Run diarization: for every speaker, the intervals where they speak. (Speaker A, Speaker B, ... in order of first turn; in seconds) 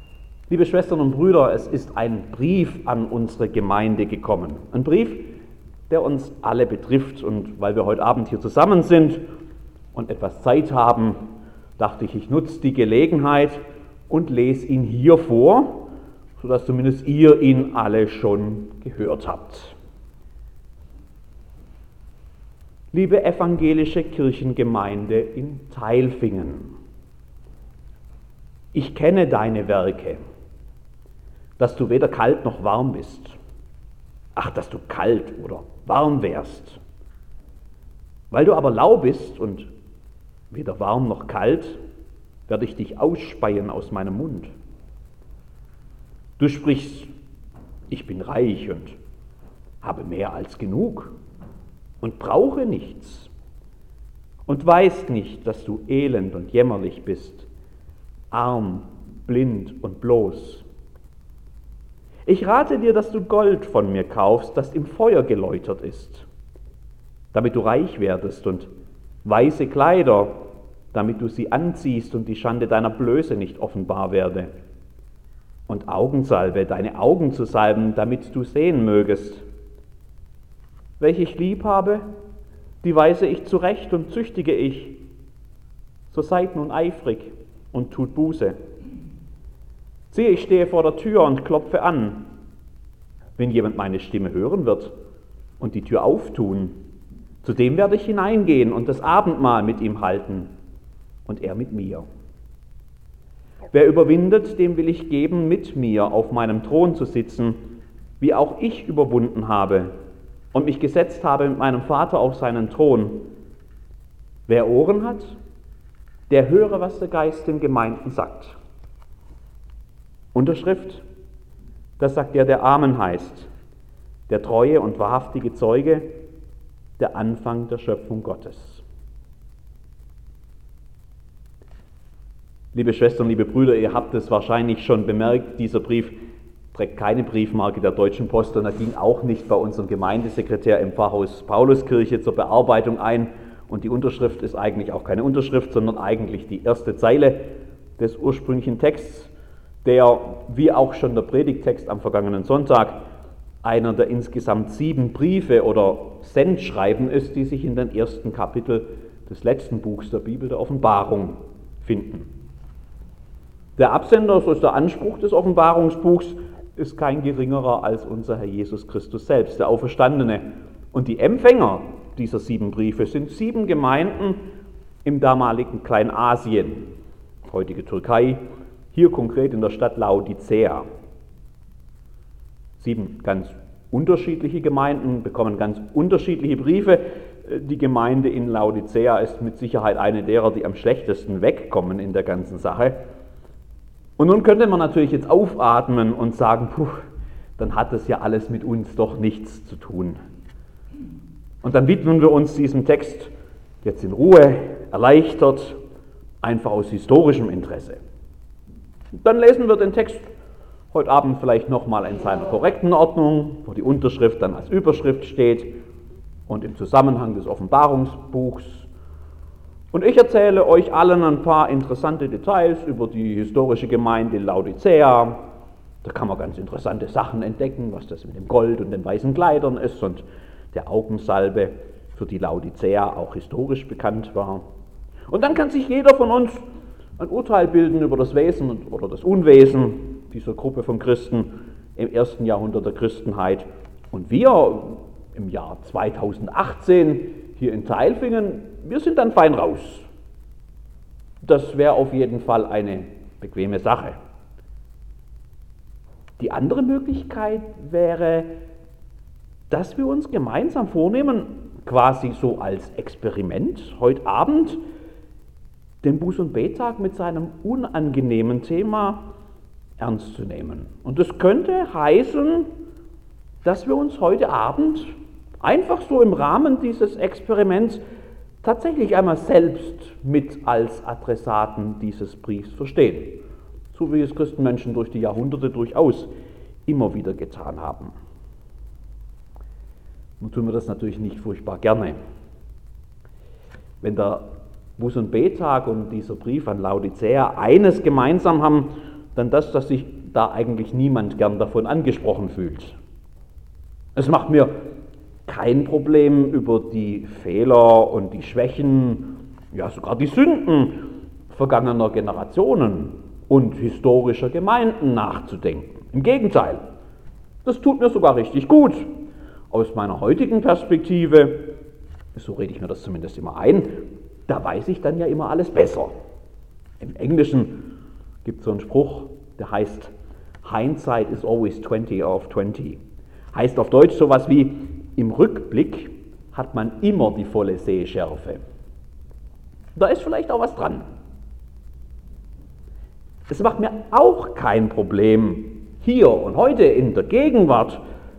Speaker A: 0.5-5.3, 5.9-9.2, 9.9-11.2, 11.8-19.8, 22.9-26.7, 28.7-30.2, 31.6-33.4, 34.4-36.8, 38.3-39.7, 40.5-41.8, 42.5-44.5, 46.4-47.1, 47.9-49.0, 49.8-51.1, 52.0-53.3, 54.5-57.5, 58.3-60.6, 62.3-66.3, 67.3-68.7, 69.2-74.5, 75.7-79.4, 81.0-82.0, 82.8-85.0, 86.1-88.6, 90.1-92.3, 93.4-94.9, 95.6-96.8, 97.4-100.5, 101.3-102.1, 103.7-107.6, 108.2-109.9, 110.5-113.3, 114.5-115.4, 116.3-118.6, 120.3-121.0, 122.0-123.5, 124.3-126.1, 127.0-128.8, 132.7-136.2, 136.7-147.4, 148.0-149.3, 149.8-153.0, 153.6-162.3, 163.8-174.4, 175.1-176.9, 177.4-180.9, 182.8-193.0, 194.2-197.1, 197.6-200.2, 201.6-203.3, 203.8-205.8, 206.4-208.0, 209.2-210.3, 210.9-215.7, 216.5-218.9, 219.9-225.4, 226.0-234.6, 235.3-236.7, 237.2-250.1, 251.4-254.2, 256.4-258.5, 259.7-264.8, 266.0-269.3, 270.0-272.7, 273.6-278.0, 278.6-283.4, 283.9-286.3, 286.9-288.1, 290.4-292.2, 294.0-303.0, 304.2-304.7, 305.5-316.8, 317.6-319.1, 319.7-321.7, 322.4-323.9, 324.5-326.1, 327.0-327.9, 328.4-330.1, 330.6-333.0, 333.5-338.6, 339.9-341.1, 343.5-348.0